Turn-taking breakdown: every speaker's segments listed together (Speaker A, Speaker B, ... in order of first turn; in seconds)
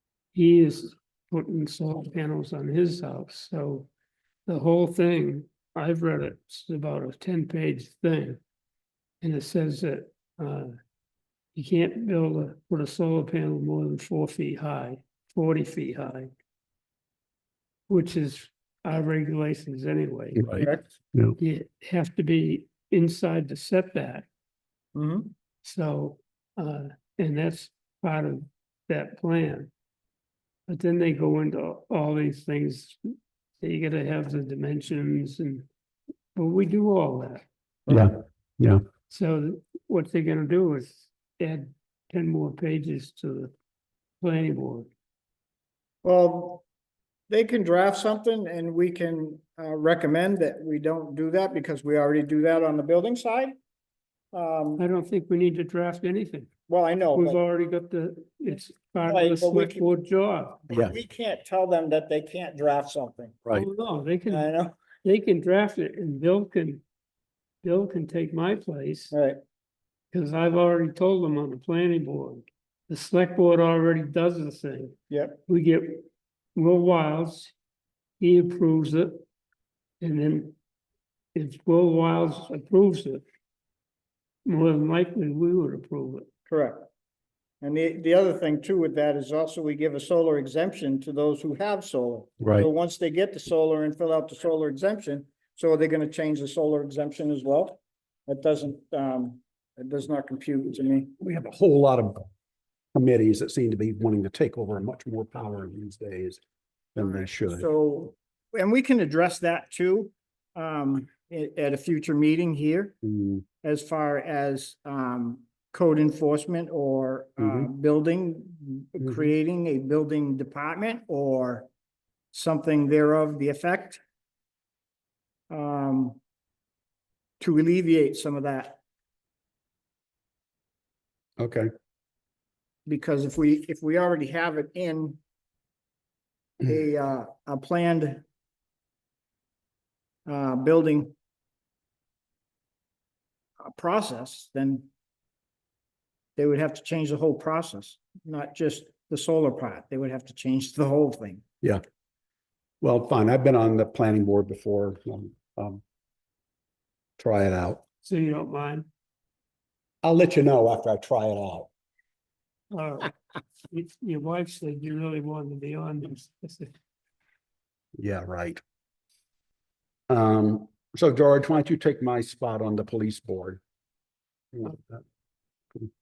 Speaker A: 0.3-3.9, 4.5-8.4, 9.2-10.7, 11.6-16.3, 17.9-20.5, 21.4-24.3, 25.6-29.7, 30.7-33.0, 33.6-35.7, 36.4-37.5, 39.1-43.5, 44.2-44.9, 54.8-56.5, 57.1-60.6, 63.5-64.5, 65.0-66.8, 67.6-69.2, 70.1-74.9, 75.5-77.5, 78.2-79.2, 80.0-80.5, 81.3-83.2, 84.5-86.3, 158.0-158.9, 162.7-163.2, 163.7-166.7
Speaker B: 20.4-21.4, 37.9-38.8, 92.4-92.7, 101.2-102.3, 103.0-106.4, 107.0-107.7, 113.0-113.4, 117.4-117.7, 131.4-131.7, 152.8-155.8, 157.2-157.8, 160.0-161.7, 168.0-168.6, 170.1-173.6, 174.5-175.0
Speaker C: 24.9-25.3, 37.9-38.1, 46.0-46.6, 47.3-53.6, 54.3-54.9, 56.7-57.4, 59.0-59.9, 60.7-63.4, 64.3-64.8, 69.1-69.4, 75.1-75.4, 86.5-86.9, 87.6-101.2, 107.0-113.0, 113.6-121.7, 122.3-124.0, 125.5-126.2, 127.4-128.8, 132.9-135.2, 136.6-138.2, 140.3-141.1, 143.6-144.9, 146.4-151.4